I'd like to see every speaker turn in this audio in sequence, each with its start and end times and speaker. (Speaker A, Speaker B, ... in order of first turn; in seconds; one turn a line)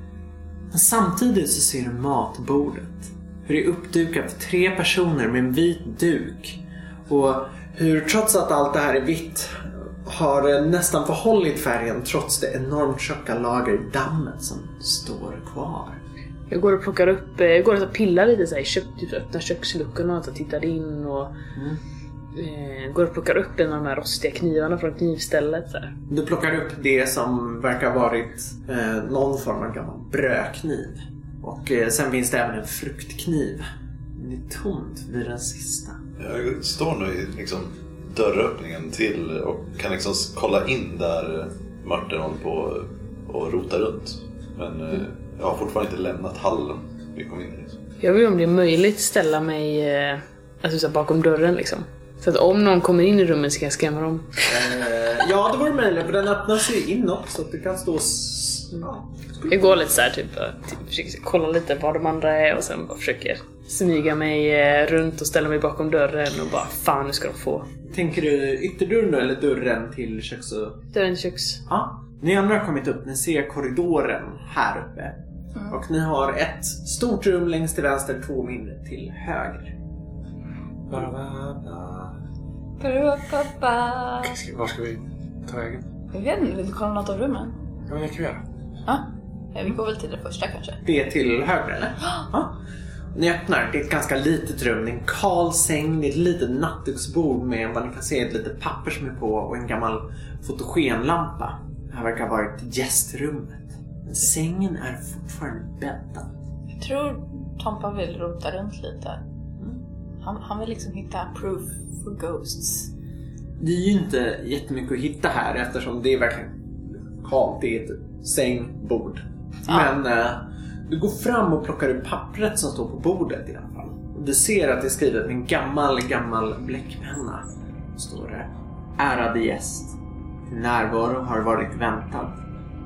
Speaker A: 0.7-16.0
Speaker B: 16.5-21.3
Speaker A: 21.5-21.8
Speaker B: 22.3-25.9
Speaker A: 26.1-36.0
Speaker C: 36.2-47.8
Speaker B: 48.0-54.4
Speaker A: 54.5-59.9
Speaker B: 59.5-67.7
Speaker A: 67.9-70.8
Speaker B: 70.9-71.6
Speaker A: 71.7-79.7
Speaker D: 80.9-82.2
Speaker E: 82.8-84.3
Speaker D: 84.2-85.9
Speaker E: 86.1-87.6
Speaker D: 87.9-88.4
Speaker E: 88.9-90.8
Speaker A: 90.8-92.6
Speaker A: 93.1-106.3
Speaker E: 106.8-109.2
Speaker E: 110.2-112.9
Speaker A: 113.6-132.4
Speaker E: 119.7-120.0